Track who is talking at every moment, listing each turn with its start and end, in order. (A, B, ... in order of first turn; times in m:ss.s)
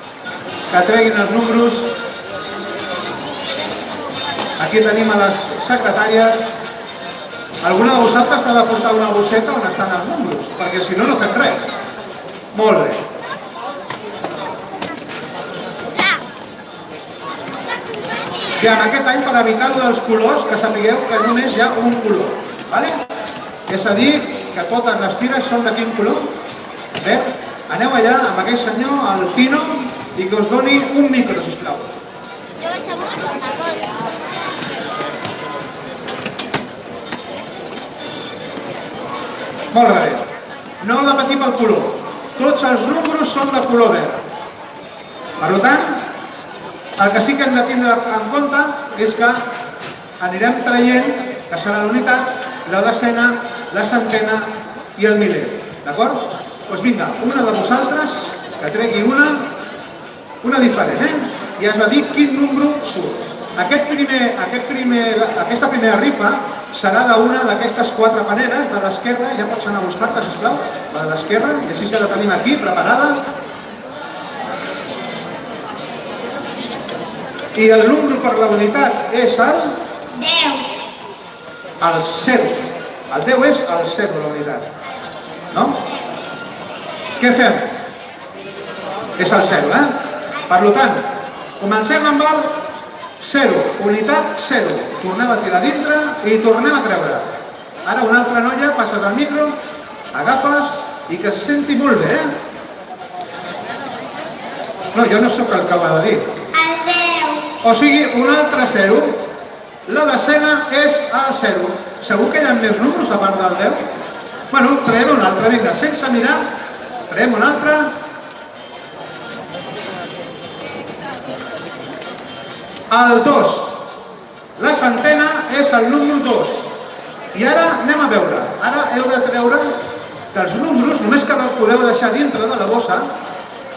0:00.7-0:01.9 A
0:04.6-0:06.5 A
0:07.6-0:11.7 A
0:12.5-0:13.0 A
0:18.6-0:23.0 A
0:23.7-0:26.3 A
0:27.0-0:31.9 A
0:32.6-0:34.0 B
0:39.7-0:40.2 A
0:40.8-0:44.2 A
0:45.4-0:46.1 A
0:47.0-0:49.5 A
0:50.2-0:59.5 A
1:00.4-1:13.2 A
1:17.5-1:19.8 A
1:20.1-1:20.7 B
1:21.8-1:24.7 A
1:25.5-1:25.8 A
1:27.2-1:27.7 A
1:29.2-1:29.9 A
1:30.5-1:32.6 A
1:33.2-1:37.3 A
1:37.8-1:39.6 A
1:40.1-1:42.3 A
1:44.9-1:46.3 A
1:46.5-1:47.5 B
1:47.6-1:49.2 A
1:49.9-1:53.8 A
1:54.5-1:56.5 A
1:57.1-1:58.0 A
2:02.9-2:03.8 A
2:04.6-2:06.7 A
2:07.3-2:09.8 A
2:10.3-2:13.1 A